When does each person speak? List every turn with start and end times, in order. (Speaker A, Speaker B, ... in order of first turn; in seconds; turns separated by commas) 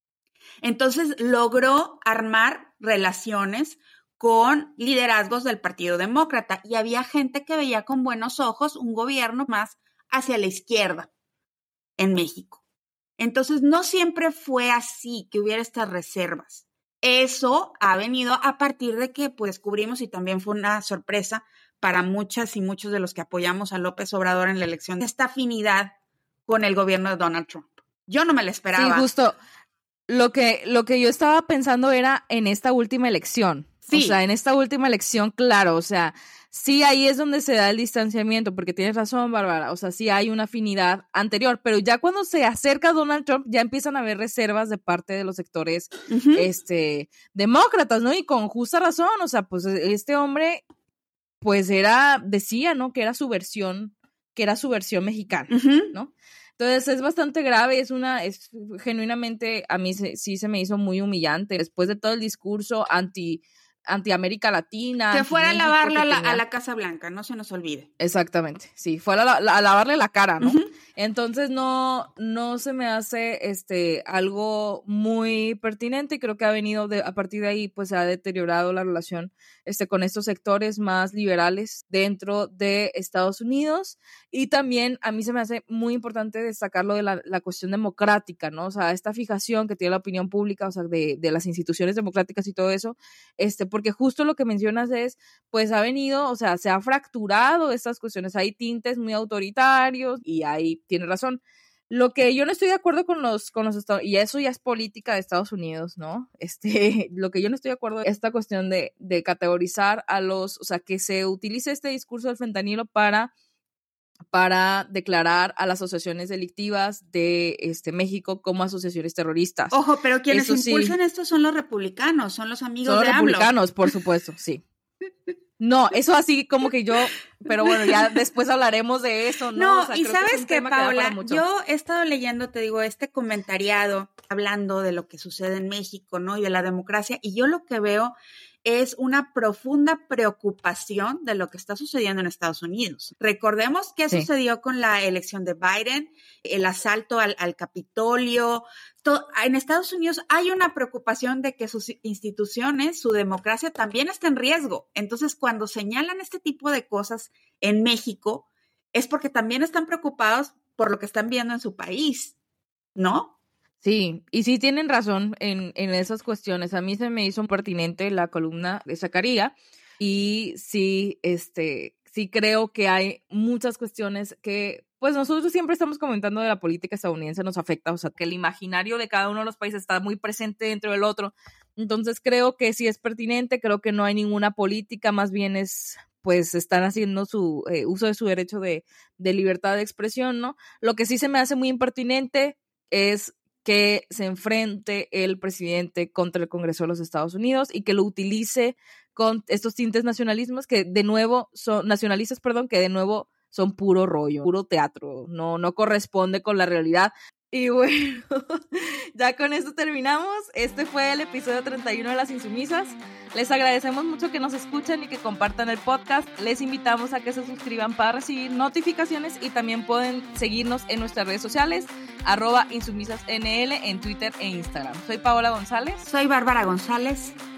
Speaker A: 0.6-11.1, Speaker A: 12.0-12.6, Speaker A: 13.2-25.9, Speaker A: 26.5-29.1, Speaker B: 28.7-29.4, Speaker B: 30.1-50.6, Speaker A: 33.9-34.2, Speaker A: 46.1-46.5, Speaker B: 51.4-66.4, Speaker A: 55.5-55.9, Speaker A: 65.1-67.9, Speaker B: 68.0-113.3, Speaker A: 70.4-70.7, Speaker B: 114.3-119.7, Speaker A: 119.7-123.5, Speaker B: 120.3-121.0, Speaker B: 122.8-124.6, Speaker B: 125.6-131.4, Speaker A: 129.5-162.3, Speaker A: 162.9-163.3, Speaker B: 163.8-226.0, Speaker A: 226.1-227.3